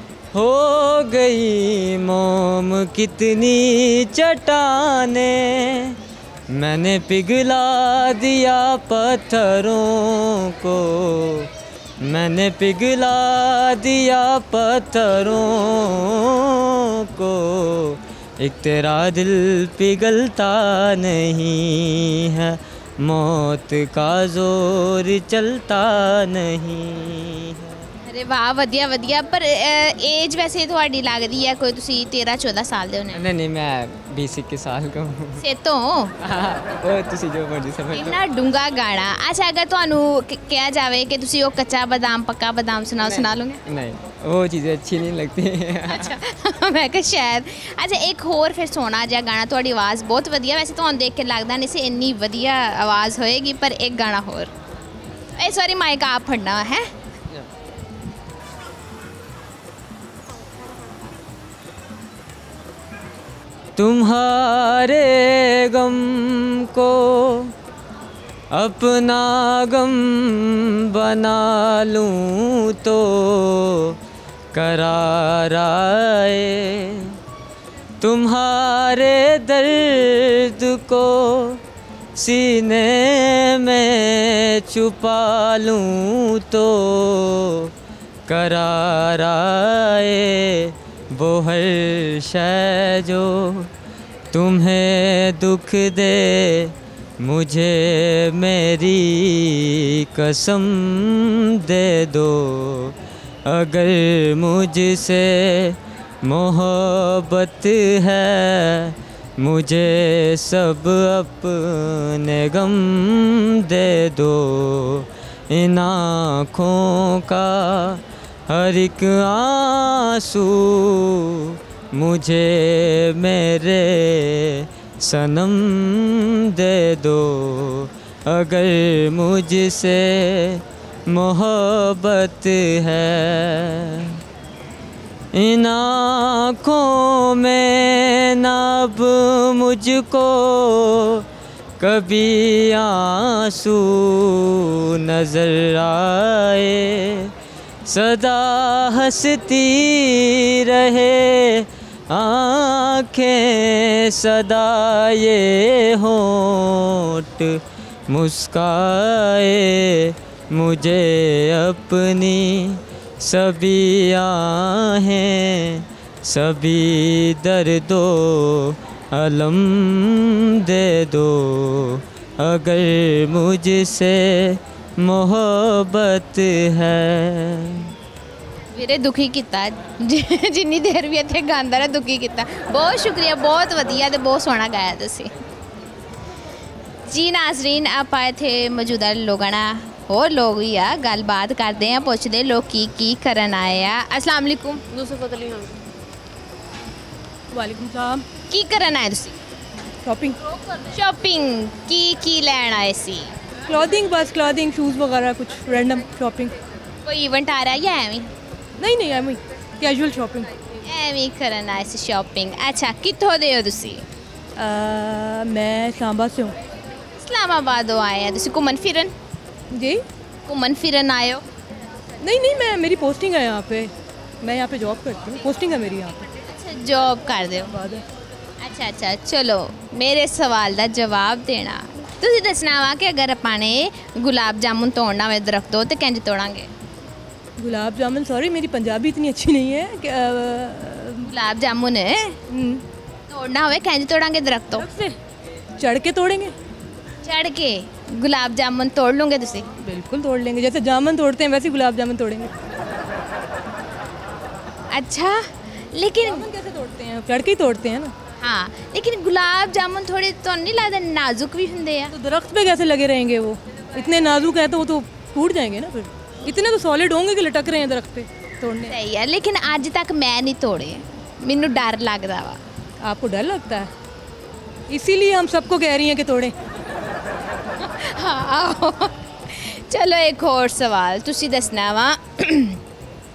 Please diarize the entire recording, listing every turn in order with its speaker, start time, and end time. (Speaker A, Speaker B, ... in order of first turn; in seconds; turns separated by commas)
Speaker A: 0.3-6.0, Speaker A: 6.5-27.7, Speaker B: 28.0-33.2, Speaker A: 33.1-35.4, Speaker B: 35.4-36.1, Speaker A: 36.2-38.2, Speaker B: 37.9-43.6, Speaker A: 43.0-46.2, Speaker B: 45.9-54.5, Speaker B: 55.4-56.9, Speaker A: 63.8-67.5, Speaker A: 68.5-74.0, Speaker A: 74.5-77.2, Speaker A: 78.0-81.6, Speaker A: 82.1-87.7, Speaker A: 88.3-93.7, Speaker A: 94.3-134.2, Speaker A: 135.3-141.2, Speaker A: 141.8-147.3, Speaker A: 147.8-177.9, Speaker B: 178.7-185.3, Speaker B: 187.1-195.6, Speaker C: 197.5-198.3, Speaker B: 198.5-199.3, Speaker C: 200.0-200.4, Speaker B: 200.9-203.3, Speaker C: 203.7-206.5, Speaker B: 207.0-208.3, Speaker C: 208.8-210.5, Speaker B: 210.8-214.0, Speaker C: 214.6-216.6, Speaker B: 217.2-219.1, Speaker C: 219.7-220.0, Speaker B: 220.4-221.4, Speaker C: 222.2-226.2, Speaker B: 226.4-227.7, Speaker C: 227.7-228.0, Speaker B: 228.6-236.7, Speaker C: 237.6-241.3, Speaker B: 241.2-242.4, Speaker C: 242.5-242.8, Speaker B: 243.3-244.9, Speaker C: 244.8-245.2, Speaker C: 245.8-246.5, Speaker B: 247.2-249.7, Speaker C: 249.8-252.5, Speaker B: 254.9-256.5, Speaker C: 256.2-258.1, Speaker B: 258.4-262.1, Speaker C: 262.1-268.9, Speaker B: 268.9-272.6, Speaker C: 273.0-273.9, Speaker C: 274.9-276.5, Speaker B: 277.8-282.8